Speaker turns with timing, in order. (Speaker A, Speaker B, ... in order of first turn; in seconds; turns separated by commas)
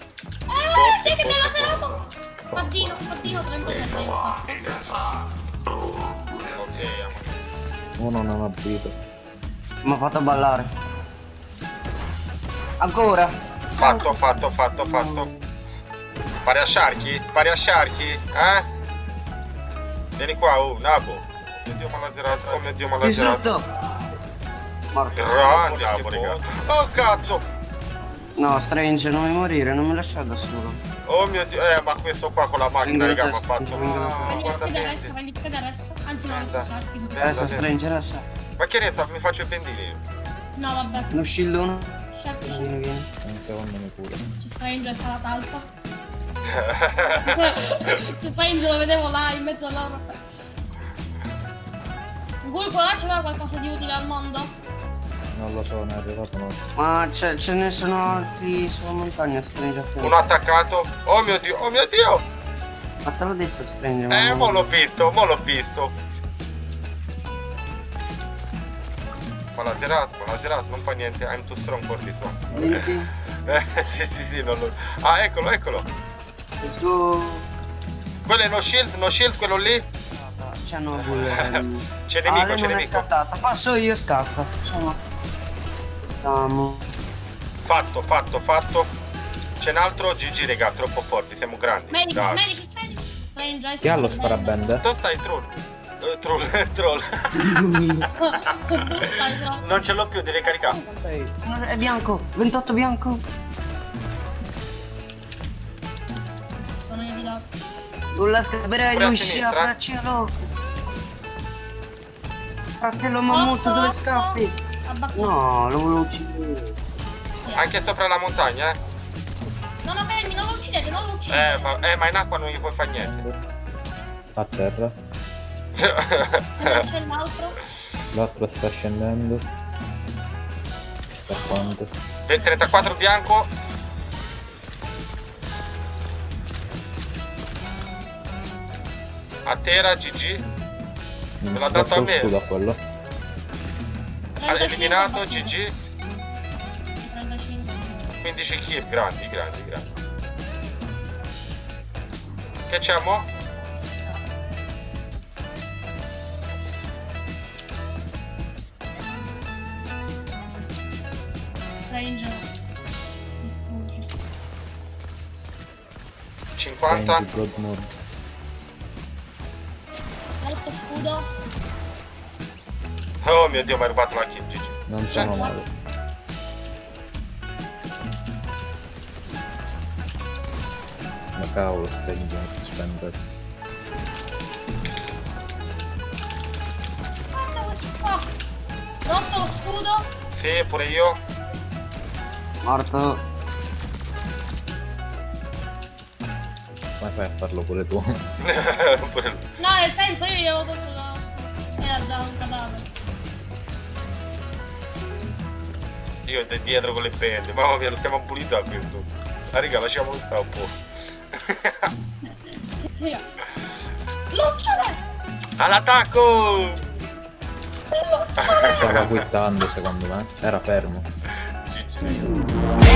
Speaker A: 0.5-5.0, Speaker B: 0.7-1.9, Speaker B: 6.5-7.3, Speaker C: 8.0-9.0, Speaker D: 9.8-10.7, Speaker D: 12.8-14.1, Speaker B: 13.8-15.3, Speaker A: 13.8-14.1, Speaker D: 14.8-15.4, Speaker B: 16.3-18.7, Speaker B: 20.2-23.6, Speaker D: 23.0-23.7, Speaker D: 24.9-25.9, Speaker B: 25.2-27.4, Speaker D: 28.4-30.8, Speaker B: 31.1-35.1, Speaker D: 32.8-34.5, Speaker A: 34.3-37.4, Speaker B: 36.3-37.7, Speaker D: 37.2-38.2, Speaker B: 38.6-40.0, Speaker A: 40.6-41.2, Speaker D: 41.1-43.1, Speaker A: 42.1-42.7, Speaker C: 43.2-44.3, Speaker A: 44.4-45.7, Speaker B: 46.4-47.5, Speaker A: 47.2-50.2, Speaker A: 52.4-54.5, Speaker C: 55.4-56.6, Speaker D: 56.8-60.4, Speaker B: 60.0-62.2, Speaker D: 63.0-64.7, Speaker B: 64.1-66.0, Speaker B: 69.6-72.7, Speaker D: 72.5-73.1, Speaker B: 73.5-75.9, Speaker D: 76.6-77.5, Speaker B: 78.3-79.9, Speaker D: 80.1-85.0, Speaker B: 81.0-83.1, Speaker D: 86.0-86.9, Speaker B: 87.6-88.9, Speaker B: 89.6-92.4, Speaker A: 91.9-94.8, Speaker C: 93.8-94.9, Speaker B: 94.8-98.1, Speaker D: 97.4-98.1, Speaker A: 98.2-99.7, Speaker B: 98.7-100.8, Speaker A: 100.7-101.2, Speaker D: 101.4-103.2, Speaker A: 106.9-107.5, Speaker D: 108.2-110.4, Speaker B: 108.9-109.7, Speaker D: 112.8-114.6, Speaker A: 113.3-115.4, Speaker D: 115.2-116.8, Speaker A: 117.4-117.8, Speaker B: 117.5-118.8, Speaker A: 119.8-121.7, Speaker B: 121.3-123.2, Speaker C: 123.0-123.4, Speaker C: 124.3-125.0, Speaker B: 125.8-126.8, Speaker A: 126.6-127.6, Speaker C: 128.1-129.4, Speaker C: 131.3-131.9, Speaker B: 132.3-133.5, Speaker B: 139.4-140.4, Speaker C: 141.4-142.8, Speaker B: 141.5-142.3, Speaker A: 144.4-145.6, Speaker B: 144.4-145.8, Speaker A: 147.0-148.1, Speaker B: 148.2-149.9, Speaker B: 152.7-153.3, Speaker A: 161.9-162.5, Speaker A: 163.4-164.1, Speaker B: 166.6-167.3, Speaker C: 166.9-167.9, Speaker A: 170.4-171.3, Speaker B: 173.2-175.5, Speaker C: 174.9-175.7, Speaker A: 175.1-175.6, Speaker C: 181.4-183.2, Speaker A: 187.3-188.3, Speaker A: 189.1-190.1, Speaker B: 190.3-191.2, Speaker D: 192.6-193.2, Speaker C: 197.0-198.1, Speaker B: 198.4-199.5, Speaker A: 199.6-202.9, Speaker B: 206.3-210.8, Speaker B: 211.4-211.9, Speaker A: 212.8-213.3, Speaker A: 214.3-215.0, Speaker B: 215.6-216.8, Speaker A: 217.9-218.8, Speaker B: 218.4-219.2, Speaker C: 218.8-221.1, Speaker B: 221.7-222.3